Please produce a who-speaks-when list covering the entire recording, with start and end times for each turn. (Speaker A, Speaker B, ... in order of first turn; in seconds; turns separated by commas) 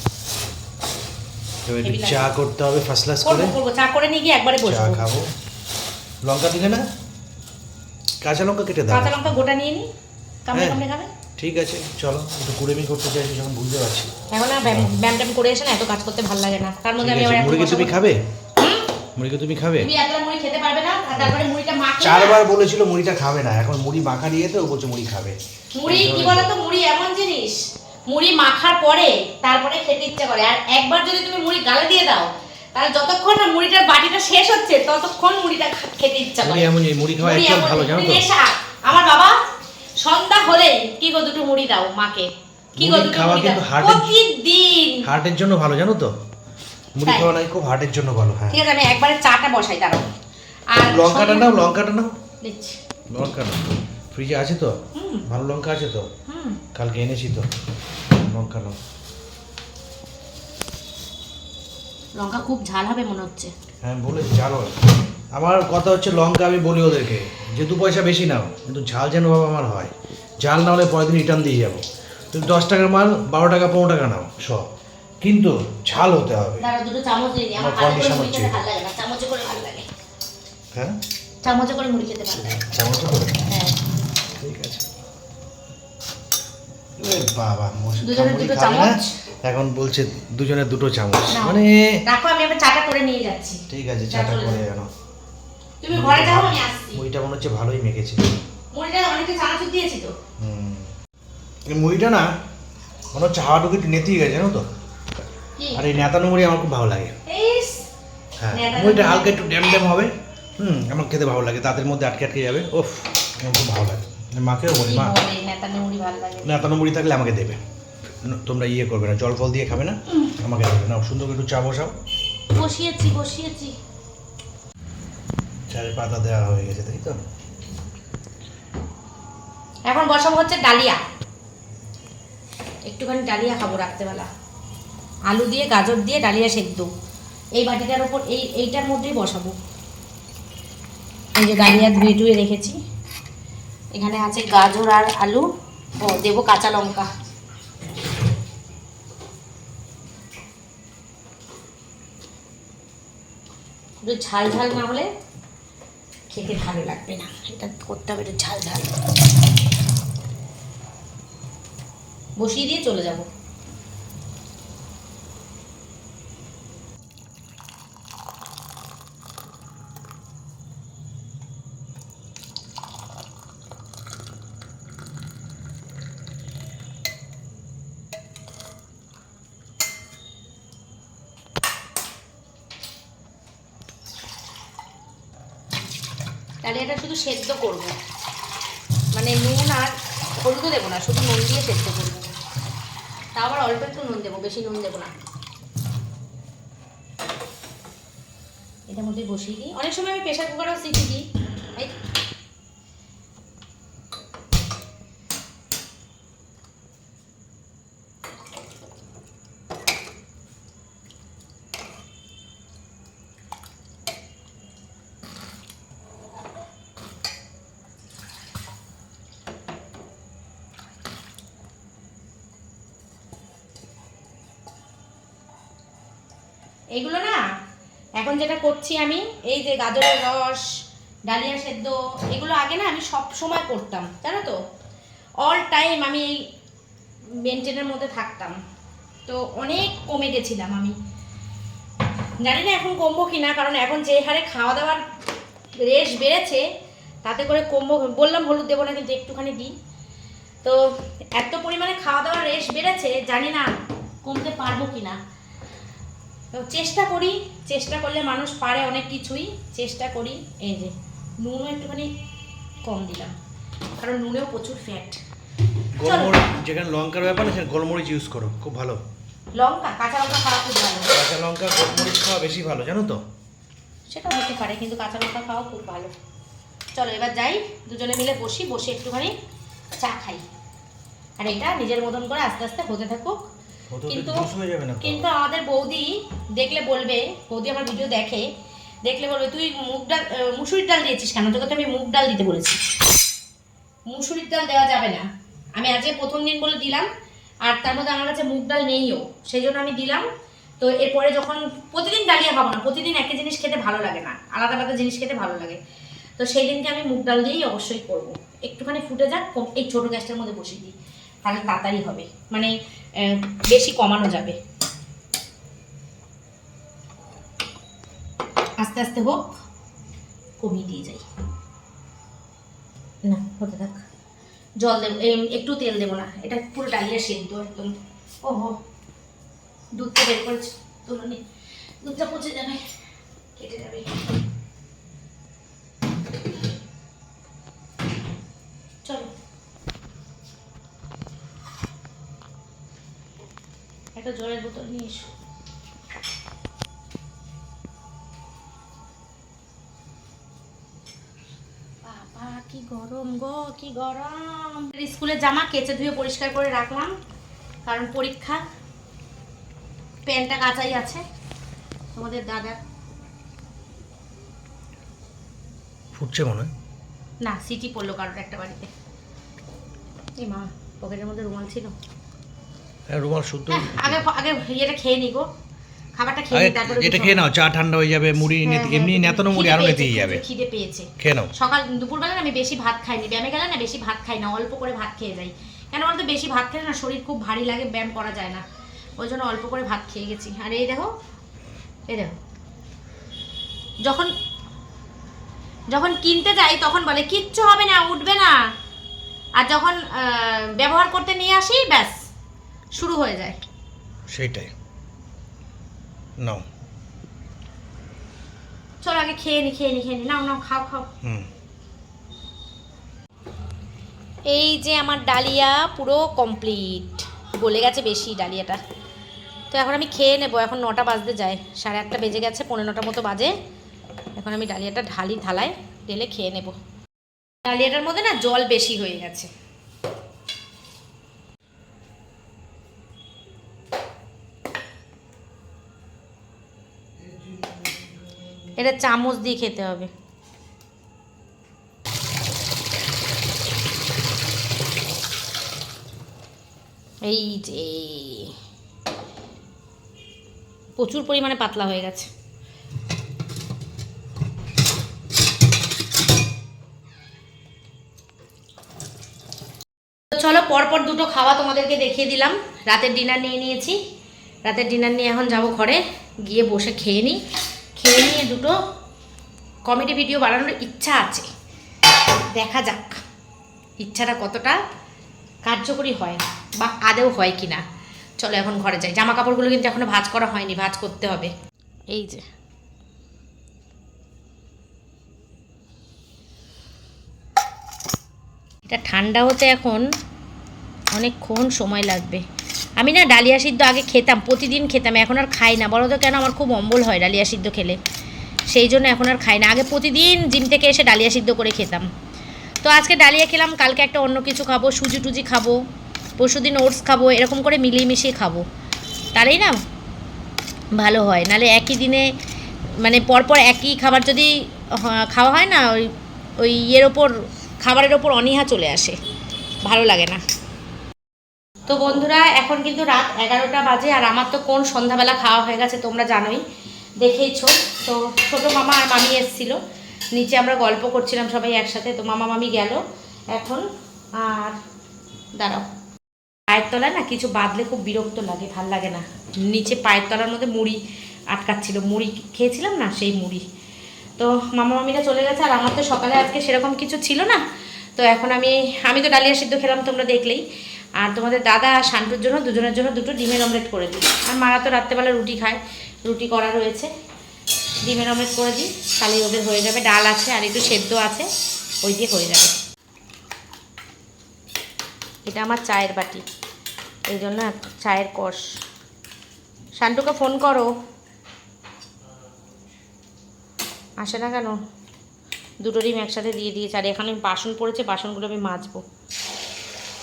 Speaker A: 1.6-3.6, Speaker B: 1.8-2.3, Speaker B: 3.2-5.0, Speaker A: 4.6-5.3, Speaker A: 6.2-6.9, Speaker A: 8.2-9.3, Speaker B: 8.9-9.9, Speaker B: 10.5-11.1, Speaker A: 10.5-10.8, Speaker A: 11.4-14.1, Speaker B: 14.3-17.9, Speaker A: 14.7-15.0, Speaker A: 17.0-18.2, Speaker B: 18.6-18.9, Speaker A: 19.1-19.9, Speaker B: 19.8-22.4, Speaker A: 22.0-26.5, Speaker B: 25.8-36.7, Speaker A: 36.4-38.3, Speaker B: 37.2-39.4, Speaker B: 40.0-45.1, Speaker A: 42.8-44.1, Speaker A: 45.0-46.1, Speaker A: 47.0-48.6, Speaker B: 48.5-50.0, Speaker B: 50.7-51.6, Speaker A: 50.8-52.1, Speaker B: 52.4-52.8, Speaker A: 53.1-56.1, Speaker B: 55.0-55.2, Speaker B: 56.3-56.6, Speaker A: 56.7-57.5, Speaker A: 58.1-58.8, Speaker B: 62.1-63.5, Speaker A: 63.8-74.7, Speaker A: 75.2-76.7, Speaker B: 76.6-79.9, Speaker A: 77.6-78.6, Speaker A: 80.7-81.0, Speaker B: 81.4-82.6, Speaker A: 82.5-83.5, Speaker B: 83.5-83.8, Speaker A: 84.4-84.9, Speaker A: 87.0-92.0, Speaker B: 88.0-89.1, Speaker B: 91.3-94.6, Speaker A: 93.7-94.9, Speaker B: 95.8-97.0, Speaker A: 95.9-98.4, Speaker B: 98.7-100.1, Speaker A: 100.4-100.9, Speaker A: 101.7-102.3, Speaker A: 103.1-104.7, Speaker B: 105.6-105.9, Speaker A: 105.8-107.2, Speaker B: 107.2-107.9, Speaker A: 108.4-115.2, Speaker B: 108.5-109.5, Speaker B: 114.9-116.6, Speaker A: 116.4-117.6, Speaker A: 118.2-122.0, Speaker B: 122.5-123.8, Speaker A: 125.7-127.2, Speaker B: 129.9-131.0, Speaker B: 132.9-134.3, Speaker B: 135.3-136.9, Speaker B: 137.6-139.6, Speaker B: 141.3-142.8, Speaker B: 143.9-145.5, Speaker B: 146.0-147.1, Speaker B: 154.1-155.1, Speaker B: 156.3-158.9, Speaker B: 162.4-163.2, Speaker B: 186.6-187.9, Speaker B: 189.1-192.3, Speaker B: 193.4-195.2, Speaker B: 198.9-201.2, Speaker B: 226.9-227.5, Speaker B: 228.2-234.6, Speaker B: 235.4-236.5, Speaker B: 237.3-238.6, Speaker B: 239.3-241.0, Speaker B: 242.4-245.0, Speaker B: 245.8-246.7, Speaker B: 247.2-249.7, Speaker B: 251.3-255.2, Speaker B: 256.5-262.1, Speaker B: 262.9-263.4, Speaker B: 264.0-265.2, Speaker A: 266.0-269.0, Speaker B: 266.1-266.4, Speaker B: 269.6-271.1, Speaker A: 271.1-273.2, Speaker B: 274.1-276.1, Speaker B: 276.9-279.4, Speaker B: 279.9-280.5, Speaker B: 281.4-283.4, Speaker A: 283.9-285.3, Speaker B: 284.1-284.5, Speaker B: 285.0-288.5, Speaker B: 289.0-292.8, Speaker B: 294.1-297.1, Speaker B: 297.6-300.3, Speaker B: 300.8-305.8, Speaker B: 306.4-314.6, Speaker B: 318.8-319.5, Speaker B: 320.6-321.2, Speaker B: 323.2-324.0, Speaker B: 324.8-328.8, Speaker B: 330.0-331.4, Speaker B: 332.0-332.9, Speaker B: 333.6-334.1, Speaker B: 339.0-339.3, Speaker B: 344.2-345.3, Speaker B: 352.0-357.1, Speaker B: 357.9-358.6, Speaker B: 360.2-361.2, Speaker B: 362.1-362.8, Speaker A: 366.1-366.7, Speaker B: 367.4-368.9, Speaker B: 370.4-371.9, Speaker A: 373.1-374.3, Speaker B: 373.7-375.5, Speaker B: 376.2-377.4, Speaker A: 376.5-380.4, Speaker B: 378.6-388.6, Speaker A: 381.2-381.5, Speaker B: 389.2-391.1, Speaker B: 392.1-392.4, Speaker B: 394.0-394.3, Speaker B: 395.9-398.7, Speaker B: 399.6-402.3, Speaker B: 402.9-403.6, Speaker A: 404.3-404.7, Speaker A: 406.4-406.7, Speaker B: 409.0-411.1, Speaker A: 411.2-411.5, Speaker B: 414.5-418.8, Speaker B: 419.7-423.5, Speaker B: 424.4-426.8, Speaker B: 427.6-429.5, Speaker A: 437.2-438.8, Speaker B: 438.8-440.1, Speaker B: 447.2-448.5, Speaker B: 451.0-452.3, Speaker B: 460.3-464.0, Speaker B: 464.7-467.4, Speaker B: 468.0-468.8, Speaker B: 469.9-471.5, Speaker B: 472.5-473.2, Speaker B: 474.0-474.8, Speaker B: 475.7-477.8, Speaker B: 478.4-481.5, Speaker B: 482.1-482.5, Speaker B: 488.9-490.1, Speaker B: 491.1-492.4, Speaker B: 493.0-498.0, Speaker B: 498.7-502.1, Speaker B: 502.8-505.8, Speaker B: 506.4-508.6, Speaker B: 509.3-509.8, Speaker B: 510.9-512.3, Speaker B: 513.0-519.2, Speaker B: 519.8-520.4, Speaker B: 521.9-526.6, Speaker B: 527.2-529.8, Speaker B: 530.3-533.0, Speaker B: 533.5-534.8, Speaker B: 535.5-535.9, Speaker B: 536.7-541.0, Speaker B: 541.5-543.6, Speaker B: 544.4-547.6, Speaker B: 548.2-550.6, Speaker B: 551.2-557.1, Speaker B: 558.0-561.5, Speaker B: 562.0-562.8, Speaker B: 565.5-566.4, Speaker B: 567.3-568.8, Speaker B: 570.0-570.9, Speaker A: 572.2-572.9, Speaker B: 574.2-574.8, Speaker B: 575.8-579.0